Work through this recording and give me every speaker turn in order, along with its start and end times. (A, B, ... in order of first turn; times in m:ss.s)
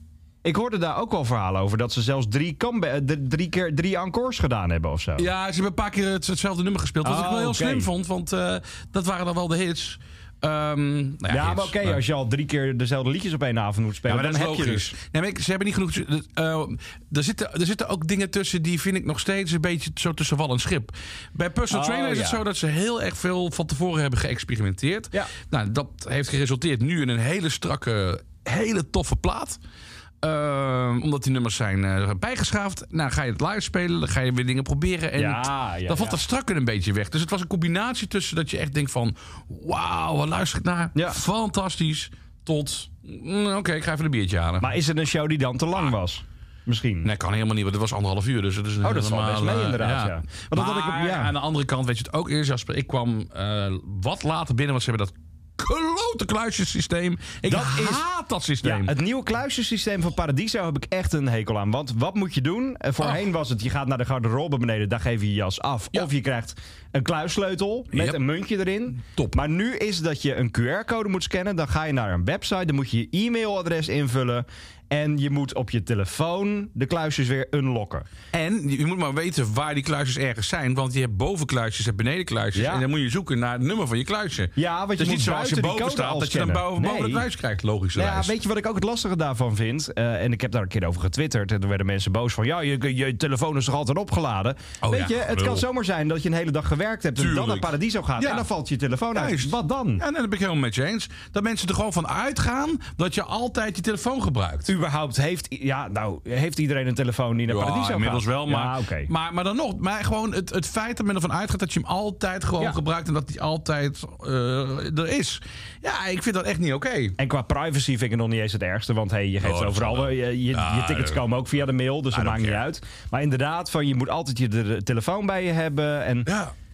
0:00.4-0:05.3 A
0:05.2-0:12.0 B
0:07.0-0:07.9 A
0:11.3-0:14.9 A
0:14.0-0:29.6 B
0:21.7-0:22.4 A
0:30.2-0:44.7 B
0:35.2-0:36.2 A
0:40.9-0:41.2 A
0:44.6-0:47.1 A
0:47.0-0:58.9 B
0:48.8-0:51.3 A
0:57.5-0:58.0 A
0:58.6-1:18.0 A
1:07.9-1:08.2 B
1:09.0-1:09.4 B
1:18.3-1:28.3 B
1:22.5-1:22.8 A
1:24.5-1:27.2 A
1:27.9-1:40.0 A
1:34.8-1:35.6 B
1:37.2-1:38.5 B
1:39.1-1:44.7 B
1:44.7-1:49.1 A
1:47.5-1:57.2 B
1:57.2-2:06.3 A
1:59.4-2:01.2 B
2:02.1-2:02.6 B
2:06.2-2:06.5 B